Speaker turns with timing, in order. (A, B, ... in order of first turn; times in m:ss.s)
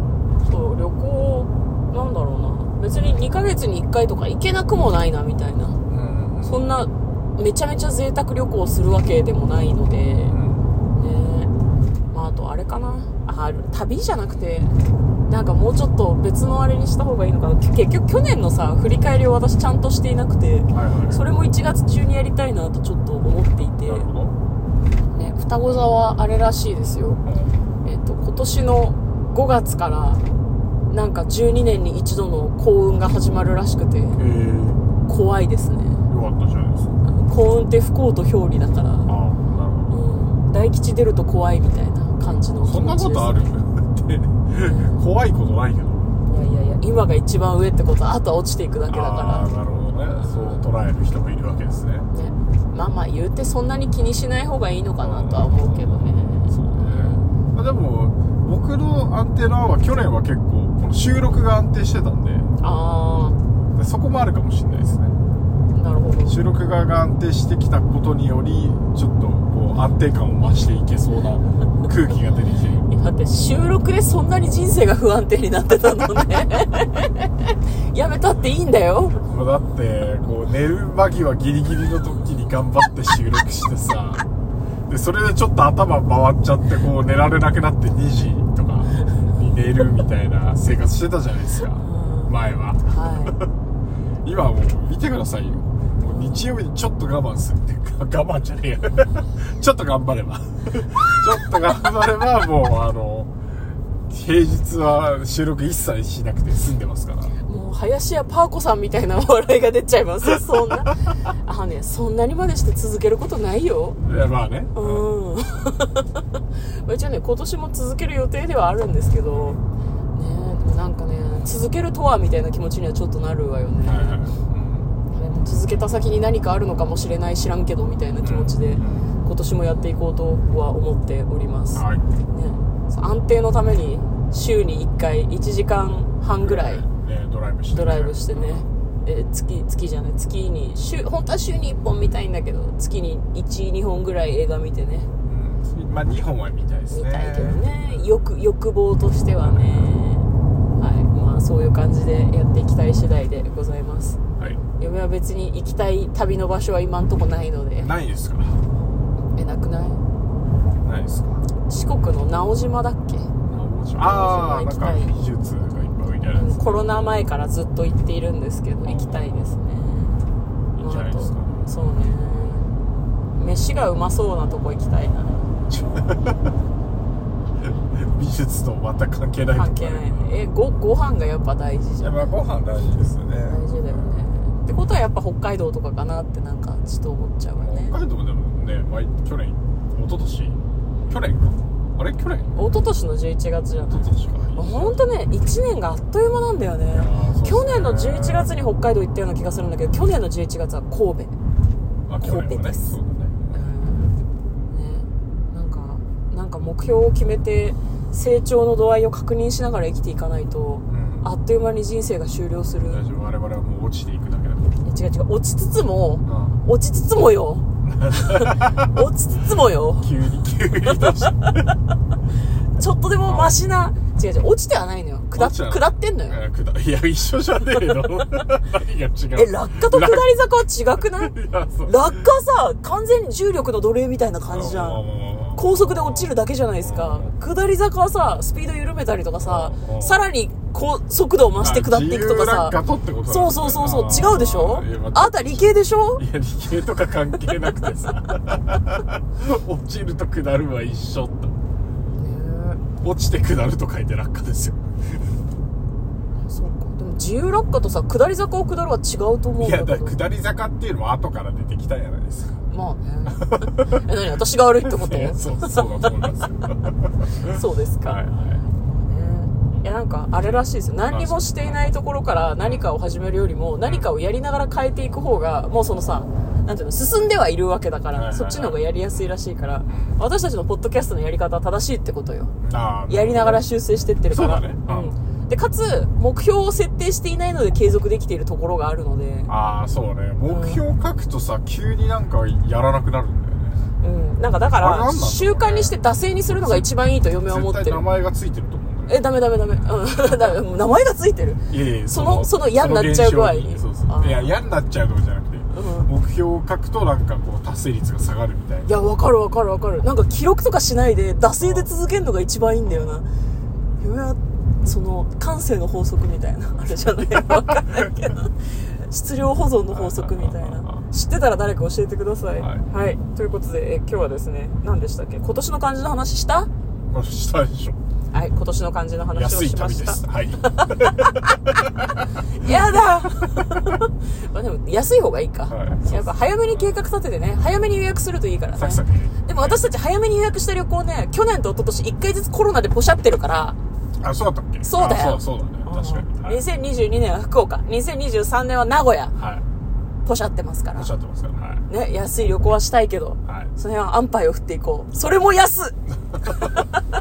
0:00.4-0:05.8 A
0:05.9-0:06.7 B
0:06.4-0:10.4 A
0:10.3-0:10.7 B
0:10.9-0:11.5 A
0:12.1-0:14.7 A
0:15.3-0:24.1 A
0:20.7-0:21.2 B
0:23.8-0:24.3 B
0:25.1-0:27.2 A
0:27.2-0:27.5 B
0:27.8-0:30.2 A
0:30.9-0:34.2 A
0:34.2-0:34.8 B
0:35.1-0:36.0 A
0:36.1-0:36.9 B
0:37.0-0:39.1 A
0:39.0-0:40.0 B
0:39.9-0:43.5 A
0:42.6-0:46.1 B
0:44.6-0:45.0 A
0:46.3-0:49.5 A
0:48.9-0:52.1 B
0:50.2-0:50.7 A
0:52.1-0:57.3 A
0:55.0-1:02.5 B
1:02.6-1:03.4 A
1:03.7-1:05.2 B
1:05.7-1:06.4 A
1:06.2-1:12.9 B
1:12.9-1:19.2 A
1:19.2-1:24.2 B
1:24.9-1:33.5 B
1:31.8-1:32.3 A
1:32.8-1:33.4 A
1:34.2-1:43.3 B
1:36.1-1:36.4 A
1:44.1-1:47.4 B
1:47.4-1:54.1 A
1:54.0-1:55.1 B
1:54.7-1:59.6 A
1:59.3-1:59.6 B
2:00.1-2:04.2 A
2:03.8-2:04.9 B
2:05.1-2:16.8 A
2:08.2-2:09.1 B
2:11.7-2:12.1 B
2:16.4-2:18.7 B
2:17.7-2:25.1 A
2:25.3-2:28.1 B
2:26.9-2:34.2 A
2:29.4-2:30.0 B
2:34.8-2:37.9 A
2:37.8-2:38.6 B
2:39.3-2:40.0 A
2:40.8-2:41.4 B
2:41.6-2:43.3 A
2:43.5-2:47.0 B
2:44.0-2:45.1 A
2:46.3-2:50.2 A
2:48.8-2:49.5 B
2:50.8-2:52.1 B
2:50.8-2:52.7 A
2:53.4-2:55.5 A
2:55.7-2:56.5 B
2:57.6-3:00.4 B
2:59.6-3:02.3 A
3:02.0-3:04.2 B
3:03.5-3:08.0 A
3:07.6-3:12.8 B
3:12.6-3:21.3 A
3:13.8-3:15.0 B
3:16.9-3:18.5 B
3:22.1-3:23.7 B
3:22.2-3:22.9 A
3:23.5-3:24.2 A
3:24.7-3:33.0 A
3:30.9-3:31.3 B
3:32.9-3:34.7 B
3:34.8-3:40.1 A
3:36.2-3:36.6 B
3:37.8-3:38.9 B
3:40.0-3:41.6 B
3:40.9-3:41.6 A
3:42.8-3:46.4 A
3:43.2-3:43.5 B
3:45.3-3:50.3 B
3:49.3-3:55.0 A
3:51.0-3:52.1 B
3:54.5-3:57.3 B
3:55.6-4:06.2 A
3:59.4-4:00.2 B
4:01.6-4:11.5 B
4:12.1-4:12.8 A
4:13.0-4:15.3 B
4:16.4-4:20.2 A
4:19.6-4:22.6 B
4:22.7-4:26.2 A
4:23.3-4:24.0 B
4:24.8-4:28.6 B
4:27.4-4:28.2 A
4:29.0-4:42.5 A
4:30.4-4:31.9 B
4:32.6-4:32.9 B
4:38.1-4:39.0 B
4:39.8-4:40.2 B
4:42.6-4:43.6 B
4:43.1-4:49.5 A
4:44.3-4:45.1 B
4:49.5-4:53.9 B
4:50.4-4:50.8 A
4:54.0-4:58.0 A
4:54.8-4:56.0 B
4:56.5-4:56.9 B
4:57.4-5:00.6 B
4:59.1-5:04.5 A
5:01.7-5:08.9 B
5:05.7-5:06.1 A
5:08.8-5:13.2 A
5:11.6-5:11.9 B
5:12.9-5:13.2 B
5:14.0-5:26.7 A
5:19.9-5:21.0 B
5:22.6-5:22.8 B
5:27.1-5:28.0 B
5:28.3-5:31.2 A
5:29.3-5:32.2 B
5:32.5-5:43.8 A
5:35.7-5:36.4 B
5:38.7-5:39.8 B
5:44.2-5:46.6 B
5:44.8-5:49.3 A
5:49.4-5:49.6 B
5:50.2-5:51.1 A
5:50.9-5:51.8 B
5:51.9-5:57.0 A
5:53.4-5:53.7 B